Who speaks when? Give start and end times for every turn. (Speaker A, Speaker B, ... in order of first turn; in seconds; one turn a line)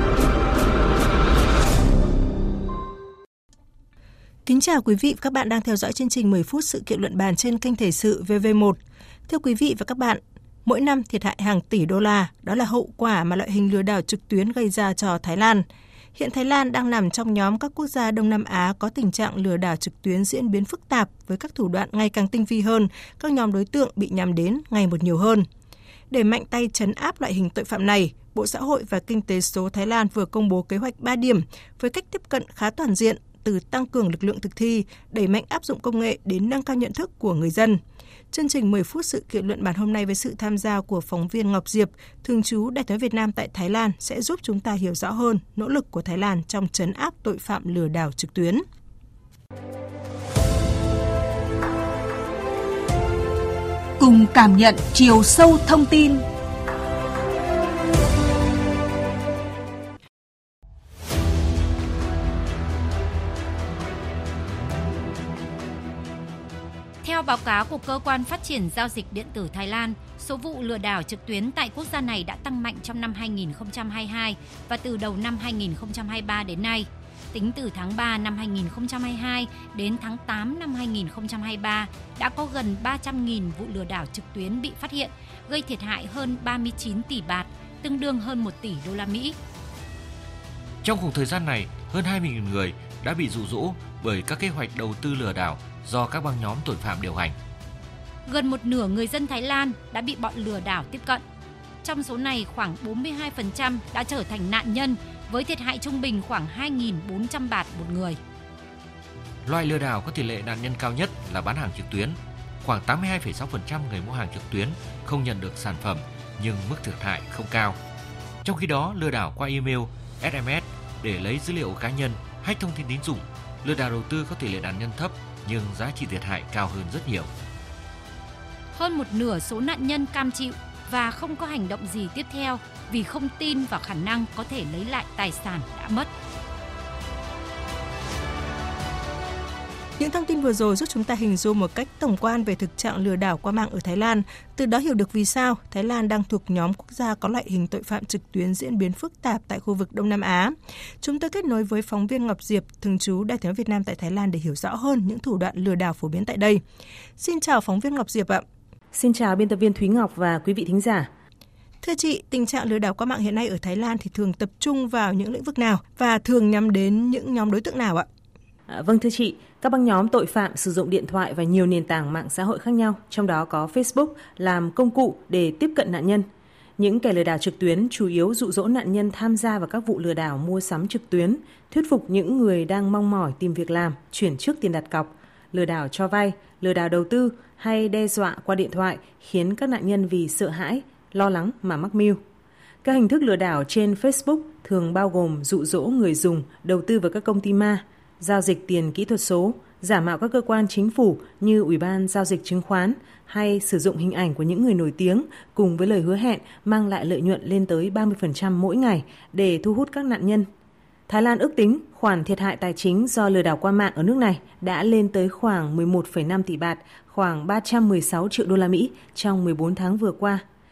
Speaker A: 4.5-25.5
Speaker A: 26.1-37.8
Speaker A: 38.3-48.6
Speaker B: 54.0-56.2
Speaker C: 67.0-89.4
Speaker D: 90.8-97.3
Speaker C: 98.3-101.2
Speaker C: 101.8-108.2
Speaker D: 109.5-117.8
Speaker D: 118.4-127.3
Speaker C: 128.7-136.1
Speaker A: 140.0-156.6
Speaker A: 157.2-158.4
Speaker E: 158.9-161.1
Speaker A: 161.8-168.1
Speaker E: 168.7-176.3
Speaker E: 176.8-192.2
Speaker E: 192.8-210.5
Speaker E: 211.1-220.4